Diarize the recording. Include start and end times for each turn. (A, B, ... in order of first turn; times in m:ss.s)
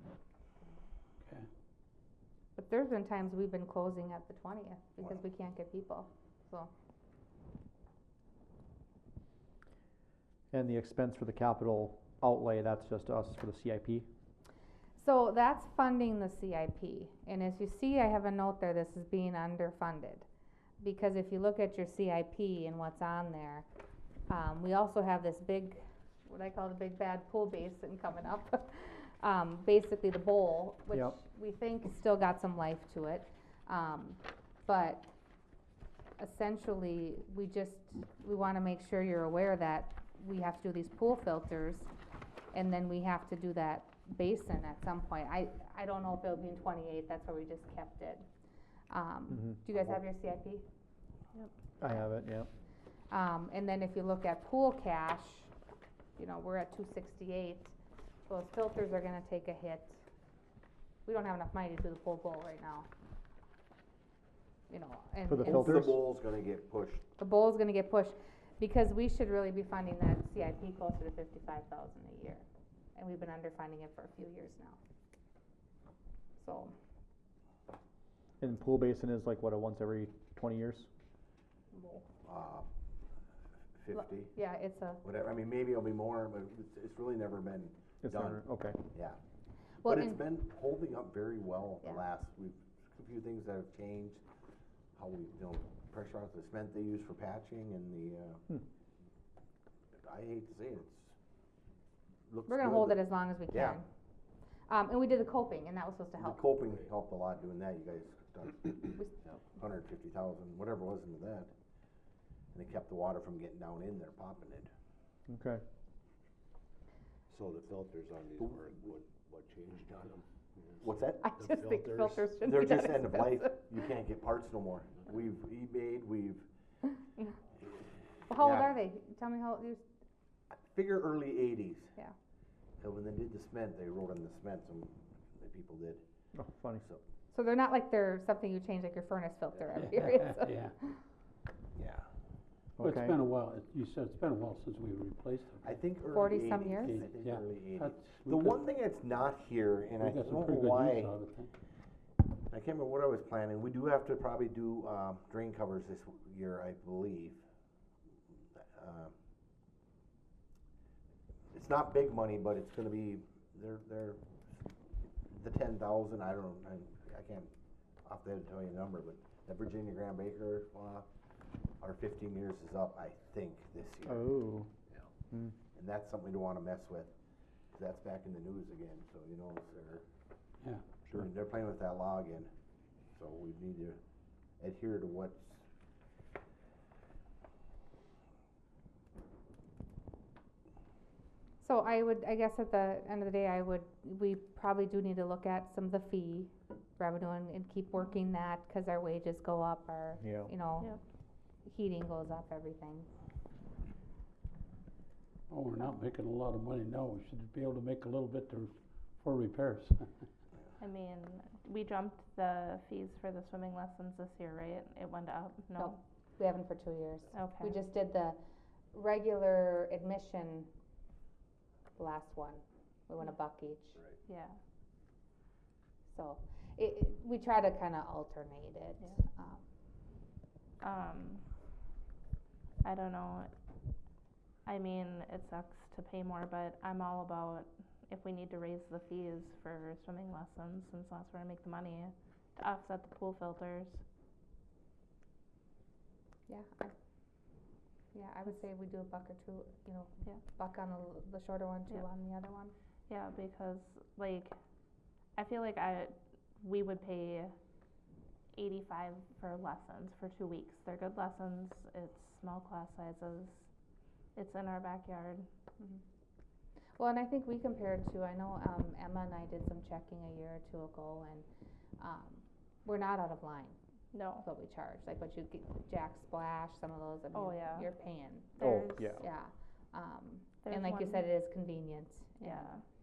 0:02.6-0:06.7 A
0:10.5-0:14.1 B
0:15.0-0:20.2 A
0:20.8-0:23.6 A
0:24.3-0:35.1 A
0:36.2-0:41.9 A
0:42.5-0:48.2 A
0:48.9-0:50.6 A
0:49.3-0:49.6 B
0:51.8-0:52.5 B
0:53.1-0:55.5 A
0:56.2-0:57.7 A
0:58.3-1:00.0 A
1:01.0-1:02.9 A
1:04.7-1:05.9 A
1:05.3-1:06.0 B
1:05.4-1:07.0 C
1:07.2-1:14.8 A
1:16.4-1:16.7 A
1:18.4-1:20.9 B
1:21.7-1:22.0 A
1:22.2-1:22.7 C
1:23.8-1:24.3 C
1:23.9-1:25.0 A
1:25.0-1:28.4 C
1:28.0-1:28.8 B
1:28.9-1:29.2 C
1:29.8-1:30.2 A
1:29.8-1:34.2 C
1:35.0-1:38.4 C
1:40.0-1:41.1 C
1:42.3-1:43.8 C
1:42.5-1:43.9 A
1:44.7-1:46.5 A
1:46.2-1:51.5 C
1:52.5-1:54.7 C
1:55.3-1:55.6 B
1:57.3-2:00.8 D
2:00.8-2:01.4 C
2:01.2-2:03.8 A
2:01.4-2:02.2 D
2:02.0-2:06.4 C
2:08.3-2:09.8 A
2:08.3-2:08.7 C
2:10.5-2:11.9 C
2:12.8-2:16.0 C
2:16.3-2:16.8 B
2:17.3-2:20.6 A
2:19.7-2:20.7 E
2:21.7-2:22.1 C
2:22.8-2:23.2 B
2:22.8-2:28.7 E
2:25.6-2:31.1 C
2:26.1-2:27.0 A
2:30.0-2:31.5 E
2:32.5-2:37.4 C
2:38.6-2:39.1 C
2:41.5-2:44.2 C
2:45.2-2:47.5 C
2:48.0-2:51.1 C
2:51.8-2:54.2 C
2:54.0-2:54.7 B
2:55.7-2:57.1 C
2:57.7-3:00.0 C
3:01.0-3:02.5 C
3:03.1-3:04.0 C
3:04.6-3:05.6 C
3:11.6-3:20.9 A
3:20.2-3:20.5 B
3:21.6-3:23.1 A
3:25.5-3:30.2 E
3:30.8-3:36.0 F
3:35.8-3:38.4 A
3:37.3-3:37.8 F
3:38.9-3:40.7 A
3:42.0-3:44.0 A
3:44.3-3:44.6 F
3:46.1-3:49.6 A
3:50.8-3:51.4 F
3:52.8-3:53.5 F
3:54.6-4:04.0 F
4:06.5-4:06.9 A
4:08.1-4:12.7 A
4:13.1-4:14.5 F
4:15.4-4:17.5 F
4:18.5-4:23.7 F
4:24.3-4:25.5 F
4:27.0-4:31.4 A
4:32.0-4:33.8 A
4:34.1-4:34.4 F
4:34.4-4:42.7 A
4:37.3-4:37.9 F
4:38.6-4:39.2 F
4:38.6-4:39.2 B
4:40.6-4:41.2 F
4:42.4-4:42.8 F